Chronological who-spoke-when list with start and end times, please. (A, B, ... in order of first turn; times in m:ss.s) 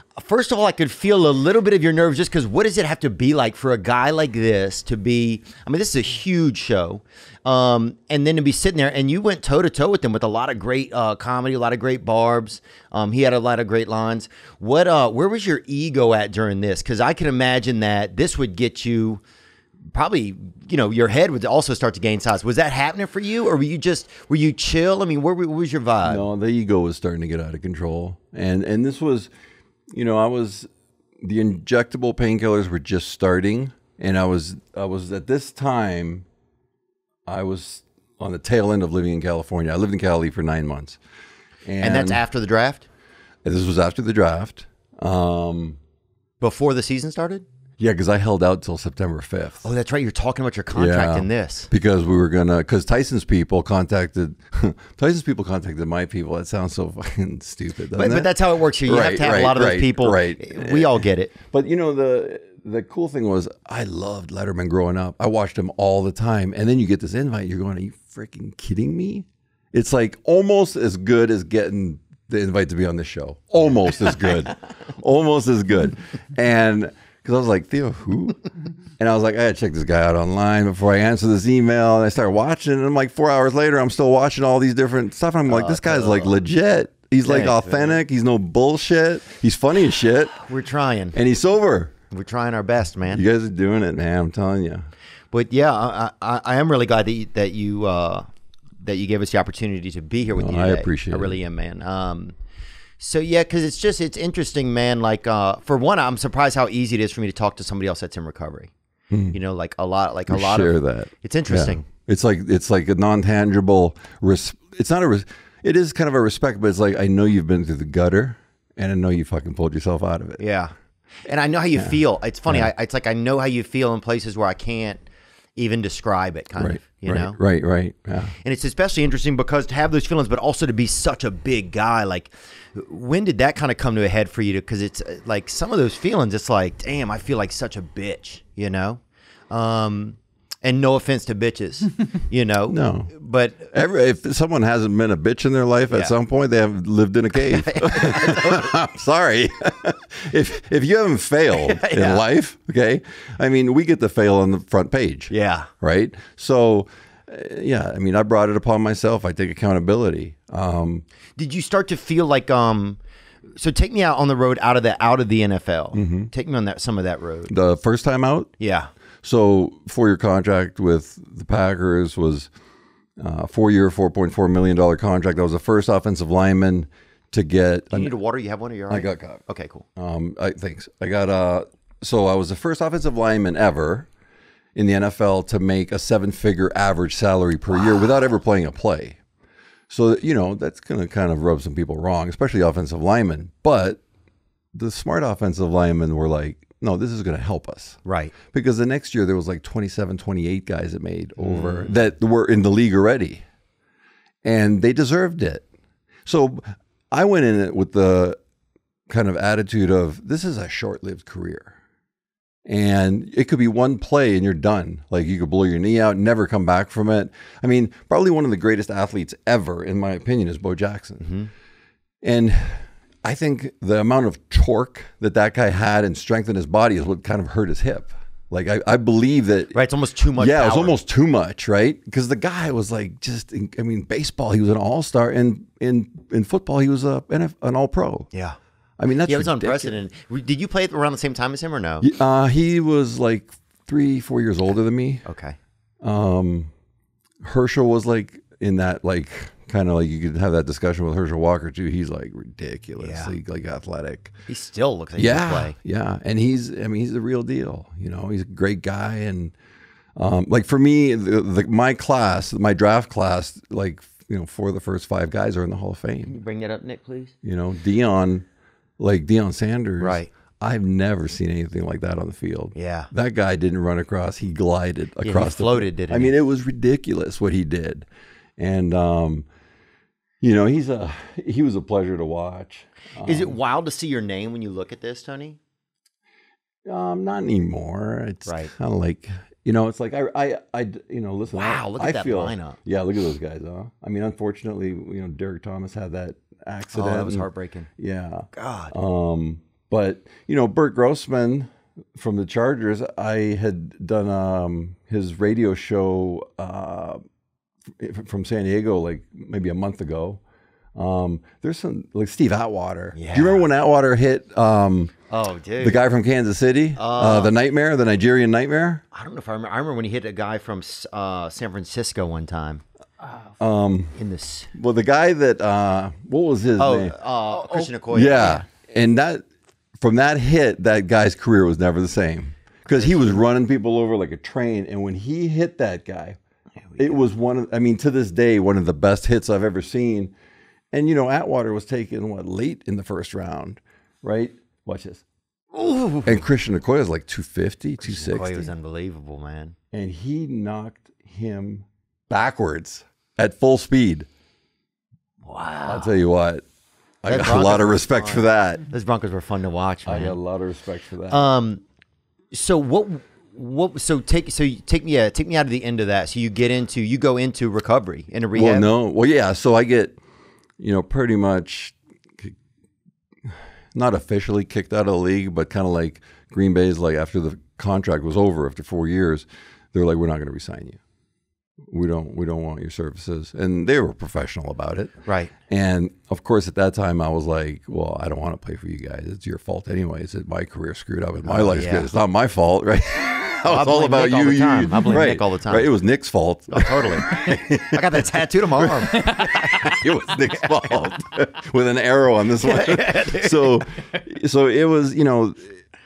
0:00.2-0:19.2 A
0:19.9-0:26.2 A
0:26.0-0:29.3 B
0:29.9-0:36.2 B
0:37.2-0:41.0 B
0:41.6-0:42.2 B
0:41.8-0:42.9 A
0:43.4-0:45.8 B
0:46.4-0:47.4 A
0:47.8-0:49.7 B
0:49.6-0:51.7 A
0:50.7-0:58.3 B
0:57.9-1:01.3 A
0:58.8-1:18.4 B
1:19.0-1:30.4 B
1:25.5-1:26.3 A
1:27.2-1:28.0 A
1:30.4-1:31.2 A
1:31.1-1:31.9 B
1:32.1-1:33.2 A
1:33.1-1:34.9 B
1:35.3-1:38.3 A
1:38.8-1:42.3 A
1:40.3-1:41.4 B
1:43.0-1:48.7 A
1:49.1-1:49.4 B
1:49.3-1:51.8 A
1:50.3-2:00.4 B
2:00.4-2:00.7 A
2:01.2-2:05.0 A
2:05.6-2:07.4 A
2:06.6-2:08.3 B
2:08.4-2:19.0 A
2:19.5-2:23.7 A
2:22.7-2:23.1 B
2:23.7-2:41.0 B
2:27.5-2:28.7 A
2:31.6-2:32.2 A
2:35.3-2:35.7 A
2:41.4-2:43.0 A
2:43.6-2:47.5 A
2:45.9-2:46.3 B
2:47.5-2:48.5 B
2:48.6-2:48.9 A
2:49.2-2:52.5 B
2:53.2-2:58.1 B
2:57.9-2:59.8 A
2:58.9-2:59.4 B
3:00.0-3:04.1 B
3:04.7-3:09.2 B
3:09.9-3:14.0 B
3:14.7-3:23.4 B
3:18.0-3:18.3 A
3:21.4-3:21.9 A
3:24.4-3:25.6 B
3:26.2-3:28.4 B
3:29.1-3:31.8 B
3:32.6-3:41.2 B
3:41.2-3:41.5 A
3:42.2-3:49.8 B
3:49.7-3:51.0 A
3:50.4-3:58.3 B
3:59.0-3:59.9 B
3:59.2-4:02.1 A
4:02.0-4:05.2 B
4:05.2-4:05.6 A
4:06.0-4:06.7 B
4:07.4-4:14.3 B
4:13.0-4:13.3 A
4:14.5-4:15.7 A
4:15.2-4:19.5 B
4:20.2-4:26.4 B
4:26.3-4:27.3 A
4:27.4-4:28.5 B
4:29.0-4:38.1 B
4:30.0-4:30.3 A
4:32.7-4:33.1 A
4:35.2-4:36.3 A
4:38.6-4:39.4 B
4:40.4-4:43.6 B
4:43.2-4:45.6 A
4:46.8-5:07.2 B
4:48.4-4:48.7 A
4:51.5-4:52.8 A
4:56.9-4:57.9 A
4:58.5-4:58.9 A
5:08.0-5:10.4 B
5:10.9-5:15.1 B
5:13.1-5:13.6 A
5:15.3-5:16.0 A
5:15.8-5:19.0 B
5:17.0-5:17.6 A
5:19.1-5:22.8 A
5:23.6-5:24.2 B
5:24.2-5:24.7 A
5:24.7-5:29.4 B
5:26.8-5:28.6 A
5:30.0-5:36.4 B
5:32.9-5:33.4 A
5:37.0-5:40.3 B
5:40.9-5:45.2 B
5:45.7-5:46.4 A
5:46.2-5:48.7 B
5:48.0-5:49.8 A
5:49.9-5:54.3 B
5:55.4-5:56.1 A
5:55.9-5:56.6 B
5:57.2-5:58.8 B
5:57.3-6:00.4 A
6:00.0-6:01.5 B
6:01.3-6:01.8 A
6:02.5-6:08.9 A
6:08.5-6:10.2 B
6:10.8-6:12.6 B
6:13.4-6:21.0 B
6:21.9-6:25.1 B
6:25.6-6:45.8 B
6:31.4-6:32.1 A
6:33.6-6:35.9 A
6:36.7-6:40.0 A
6:42.6-6:43.8 A